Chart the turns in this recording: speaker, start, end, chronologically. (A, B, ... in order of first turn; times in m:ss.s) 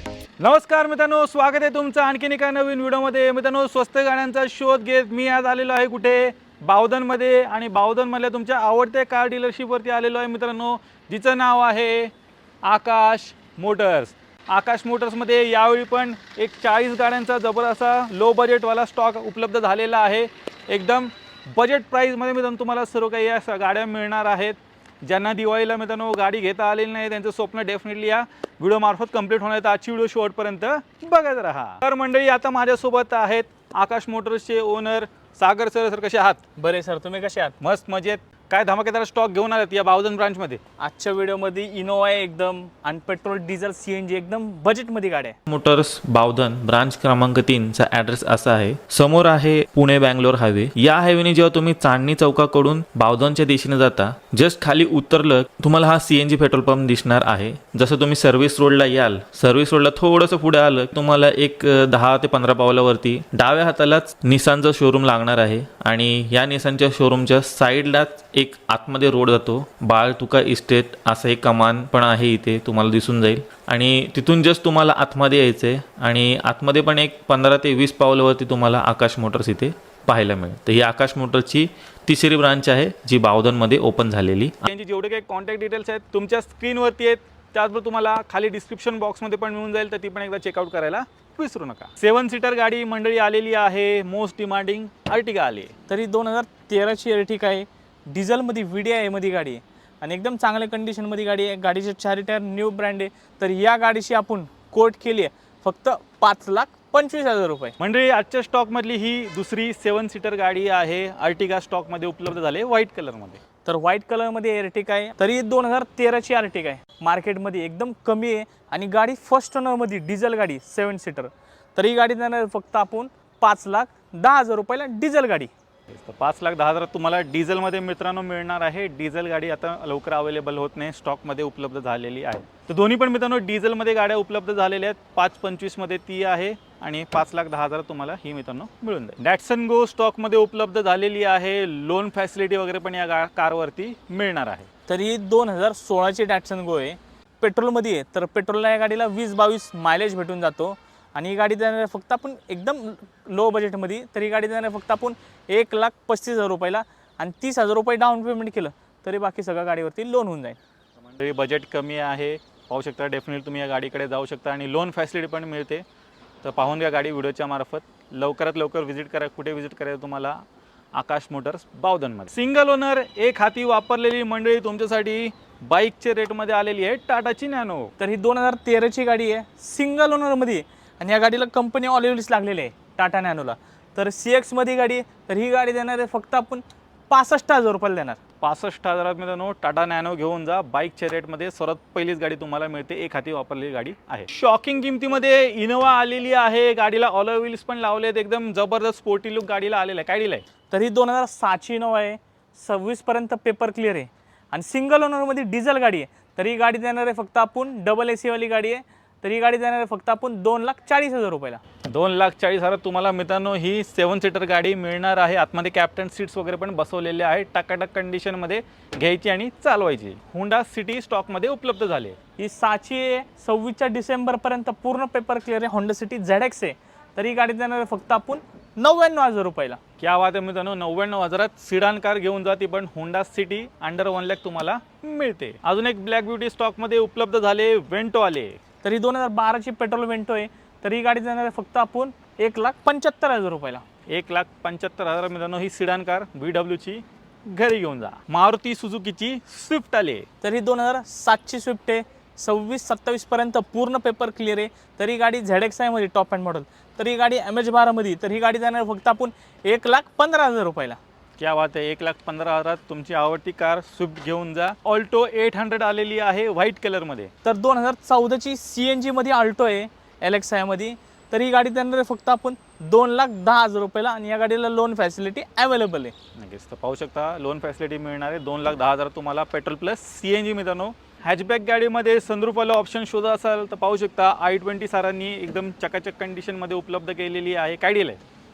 0:00.4-0:12.1 A
0:12.6-0:36.4 A
0:36.6-0:37.6 B
0:37.6-0:40.6 A
0:40.8-0:45.4 B
0:45.5-1:24.5 C
0:48.5-0:53.0 A
0:53.8-0:55.5 A
0:57.8-0:58.6 A
1:04.0-1:04.6 A
1:14.6-1:14.8 A
1:15.6-1:16.1 A
1:20.1-1:20.7 A
1:22.3-1:35.7 A
1:35.9-1:47.7 B
1:47.8-1:53.4 A
1:53.6-2:05.5 B
2:05.9-2:24.7 A
2:24.9-2:40.6 B
2:41.1-2:45.8 A
2:46.4-2:50.4 A
2:50.9-2:57.9 A
2:58.0-3:08.2 B
3:08.4-3:20.4 A
3:20.7-3:31.6 B
3:31.8-3:42.2 A
3:42.4-3:49.8 B
3:50.0-3:58.6 A
3:58.8-4:03.8 B
4:04.1-4:10.3 A
4:10.4-4:21.0 B
4:21.4-4:27.3 A
4:27.4-4:36.1 B
4:36.4-4:48.2 A